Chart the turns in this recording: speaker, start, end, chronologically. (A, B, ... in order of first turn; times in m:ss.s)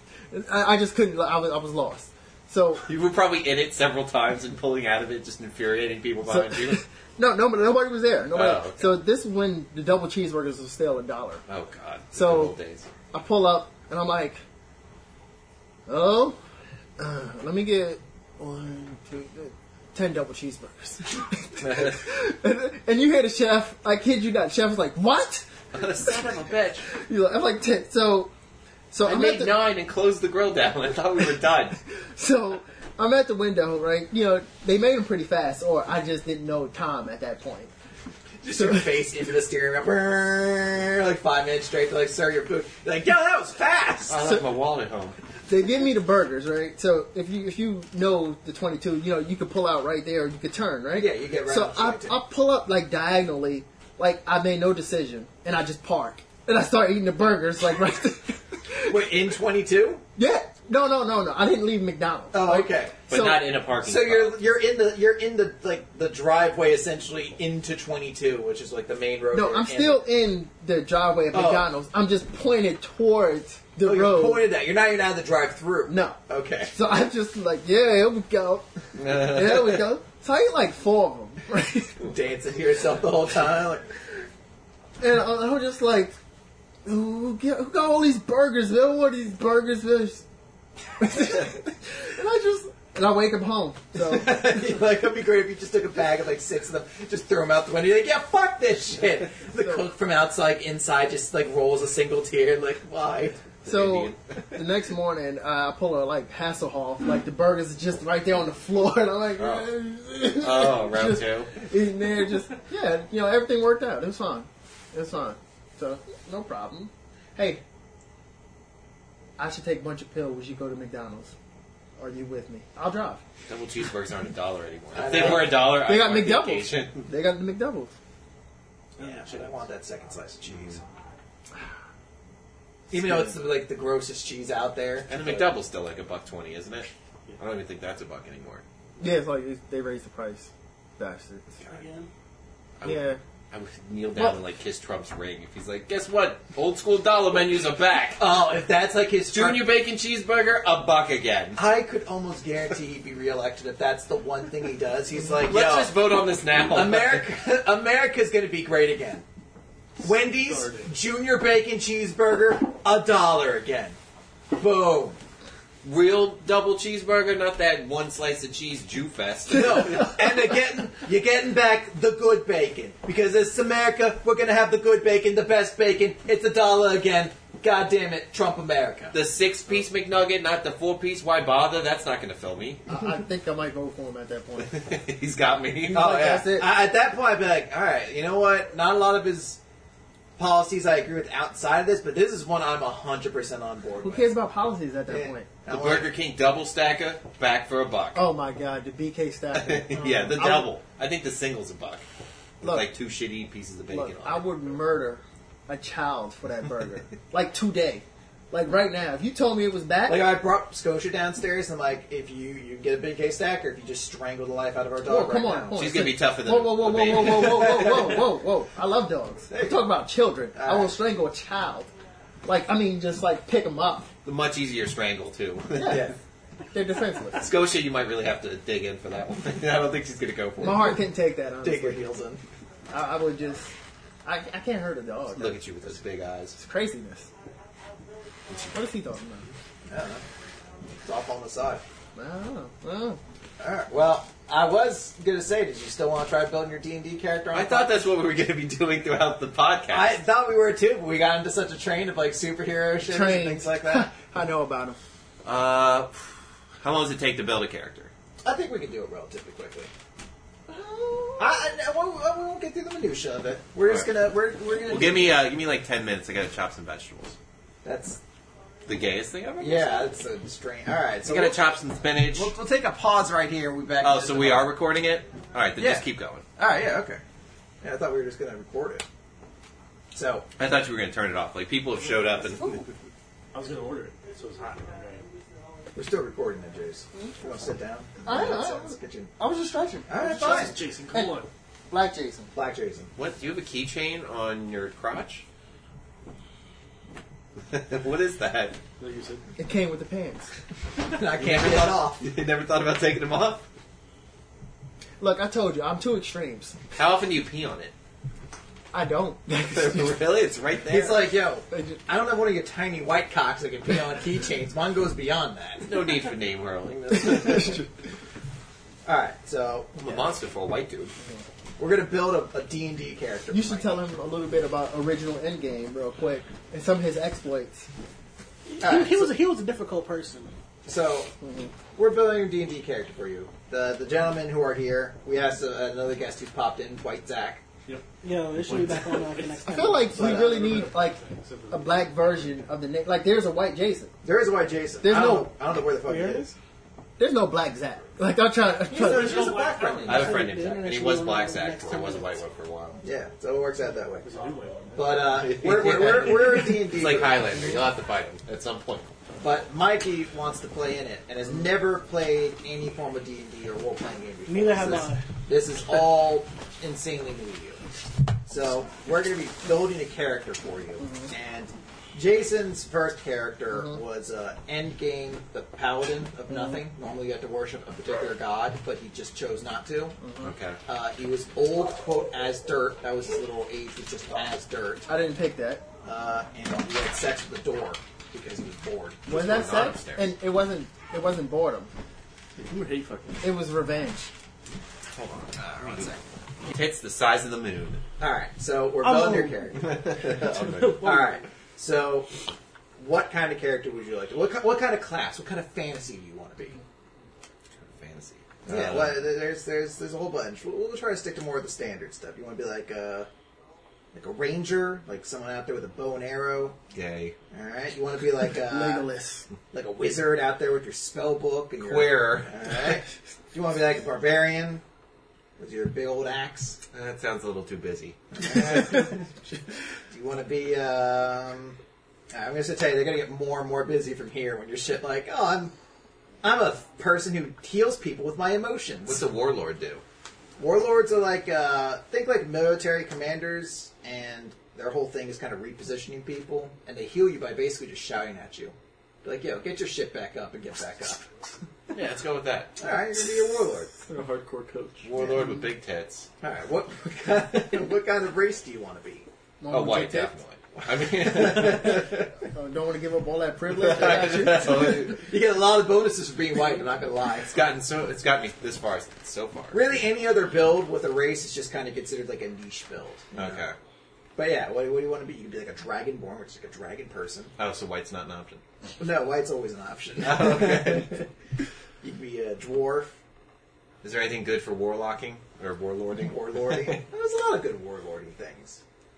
0:00.3-0:02.8 A
0:02.8-0:06.8 B
0:06.3-0:11.4 A
0:08.3-0:09.0 B
0:11.5-0:12.9 B
0:12.1-0:12.6 A
0:13.1-0:14.4 A
0:15.9-0:16.4 A
0:17.0-0:25.5 A
0:21.6-0:22.0 B
0:25.7-0:26.9 B
0:26.0-0:28.3 A
0:28.9-0:29.6 A
0:29.0-0:31.8 B
0:32.0-0:37.7 A
0:38.4-0:44.2 C
0:38.5-0:39.0 A
0:44.1-0:45.2 B
0:44.2-0:44.4 A
0:45.5-0:59.0 A
0:50.9-0:52.2 C
0:58.9-1:00.0 C
1:00.2-1:03.5 A
1:02.3-1:03.0 C
1:03.1-1:04.4 B
1:03.8-1:10.0 C
1:09.3-1:14.5 A
1:11.3-1:11.7 C
1:13.8-1:16.8 C
1:15.9-1:16.2 A
1:16.7-1:22.0 A
1:19.0-1:19.9 B
1:22.0-1:23.9 C
1:25.0-1:26.1 A
1:26.8-1:30.2 A
1:31.0-1:34.5 A
1:34.0-1:43.4 C
1:39.6-1:39.8 A
1:43.6-1:44.4 B
1:43.6-1:57.6 A
1:49.4-1:49.7 B
1:50.2-1:51.5 B
1:59.4-2:01.3 A
2:02.0-2:03.2 A
2:03.5-2:07.1 B
2:04.9-2:05.6 C
2:05.1-2:07.9 A
2:09.0-2:09.6 D
2:09.0-2:10.8 C
2:12.9-2:15.5 C
2:12.9-2:13.3 A
2:15.1-2:18.6 B
2:19.0-2:21.6 A
2:21.6-2:22.1 E
2:22.8-2:28.2 B
2:22.8-2:23.2 A
2:28.2-2:29.7 C
2:29.3-2:31.6 B
2:31.6-2:36.0 C
2:35.4-2:37.3 B
2:36.7-2:39.2 C
2:40.0-2:44.0 C
2:40.0-2:40.9 D
2:44.6-2:45.2 C
2:45.8-2:50.2 B
2:49.5-2:59.2 C
2:59.1-3:02.8 B
3:02.9-3:04.8 A
3:04.6-3:06.4 B
3:05.8-3:06.7 A
3:05.9-3:09.6 C
3:10.4-3:14.3 C
3:14.0-3:15.5 A
3:15.1-3:16.1 C
3:15.7-3:18.2 B
3:18.1-3:20.7 A
3:19.5-3:22.0 B
3:22.6-3:24.6 B
3:22.6-3:22.9 A
3:23.9-3:30.3 A
3:30.1-3:35.8 C
3:35.0-3:41.9 A
3:35.7-3:38.2 B
3:39.5-3:39.8 C
3:40.5-3:40.9 C
3:42.4-3:44.1 A
3:44.2-3:46.1 B
3:45.8-3:46.1 A
3:45.8-3:46.2 C
3:46.7-3:47.5 A
3:47.4-3:51.0 B
3:50.6-3:52.0 A
3:51.6-3:52.4 C
3:52.9-3:53.7 A
3:54.2-3:55.6 A
3:55.4-3:56.6 B
3:56.6-3:57.3 A
3:58.5-3:58.8 B
3:58.7-3:59.5 A
3:59.9-4:00.2 C
4:01.0-4:01.8 C
4:02.2-4:03.2 A
4:03.6-4:08.1 C
4:07.5-4:10.2 B
4:09.9-4:14.1 C
4:13.1-4:15.0 A
4:15.4-4:18.1 B
4:18.4-4:19.9 C
4:20.7-4:21.7 A
4:21.4-4:25.4 C
4:24.8-4:27.4 B
4:27.8-4:28.2 C
4:28.9-4:30.1 B
4:29.6-4:31.7 C
4:31.2-4:32.5 B
4:32.2-4:34.8 C
4:34.0-4:36.4 B
4:35.8-4:37.2 C
4:37.8-4:39.0 C
4:40.1-4:40.5 C
4:40.6-4:42.8 B
4:43.5-4:45.3 D
4:46.0-4:49.3 C
4:48.2-4:52.5 A
4:50.1-4:50.8 C
4:50.2-4:51.5 D
4:52.5-4:53.1 C
4:53.2-4:55.4 B
4:57.7-4:58.8 B
4:59.0-4:59.4 D
4:59.6-5:00.5 A
5:01.1-5:02.2 C
5:01.4-5:01.7 D
5:01.4-5:03.6 B
5:05.2-5:06.8 A
5:06.9-5:07.9 B
5:08.9-5:10.2 A
5:09.7-5:11.3 B
5:10.9-5:15.9 C
5:11.7-5:12.0 A
5:15.8-5:17.9 B
5:17.4-5:17.8 A
5:19.1-5:20.4 C
5:20.0-5:21.1 B
5:21.8-5:24.0 C
5:23.5-5:27.9 A
5:28.7-5:30.5 E
5:28.8-5:29.4 C
5:30.9-5:31.3 C
5:31.4-5:31.7 A
5:32.0-5:37.6 C
5:37.8-5:42.7 D
5:38.2-5:40.2 E
5:39.7-5:44.1 A
5:40.2-5:40.7 C
5:44.2-5:46.6 C
5:45.0-5:45.5 A
5:46.0-5:46.5 E
5:47.2-5:49.6 A
5:48.9-5:50.4 C
5:49.0-5:50.1 D
5:49.8-5:52.4 E
5:50.0-5:53.0 B
5:53.0-5:54.3 C
5:54.2-5:55.4 D
5:55.0-5:57.8 C
5:55.2-5:59.1 B
5:59.4-6:07.8 C
6:04.5-6:05.2 E
6:08.5-6:20.2 C
6:11.0-6:11.3 A
6:16.5-6:16.8 A
6:20.2-6:20.5 A
6:20.4-6:20.8 B
6:20.9-6:25.1 C
6:25.1-6:25.8 A
6:26.0-6:29.5 C
6:29.3-6:30.3 B
6:29.3-6:31.9 A
6:32.6-6:33.5 D
6:33.4-6:34.3 A
6:35.2-6:38.0 B
6:35.6-6:36.2 C
6:38.2-6:40.4 C
6:39.0-6:41.4 E
6:39.8-6:41.0 B
6:41.0-6:42.3 C
6:43.0-6:46.8 C
6:47.9-6:49.2 B
6:48.6-6:53.3 C
6:54.1-6:56.8 C
6:56.9-6:57.4 B
6:57.5-6:59.1 C
6:58.7-6:59.5 A
6:59.7-7:04.8 C
7:01.8-7:02.6 B
7:05.6-7:06.8 C
7:06.9-7:08.2 B
7:08.3-7:09.3 C
7:10.1-7:11.8 C
7:12.3-7:15.7 C
7:16.4-7:19.3 C
7:19.1-7:20.0 B
7:20.6-7:31.2 C
7:31.9-7:32.8 B
7:32.8-7:33.9 C
7:34.0-7:35.1 D
7:35.0-7:36.3 B
7:36.4-7:39.3 C
7:39.6-7:40.3 A
7:39.7-7:42.3 B
7:41.1-7:42.1 C
7:42.5-7:45.2 A
7:43.7-7:45.2 B
7:44.9-7:47.6 C
7:47.5-7:50.0 B
7:49.7-7:53.7 C
7:53.3-7:53.8 B
7:54.4-7:57.5 C
7:57.6-7:58.6 B
7:59.0-8:01.3 C
8:00.2-8:01.2 B
8:02.0-8:03.2 C
8:04.0-8:07.0 B
8:06.2-8:08.8 C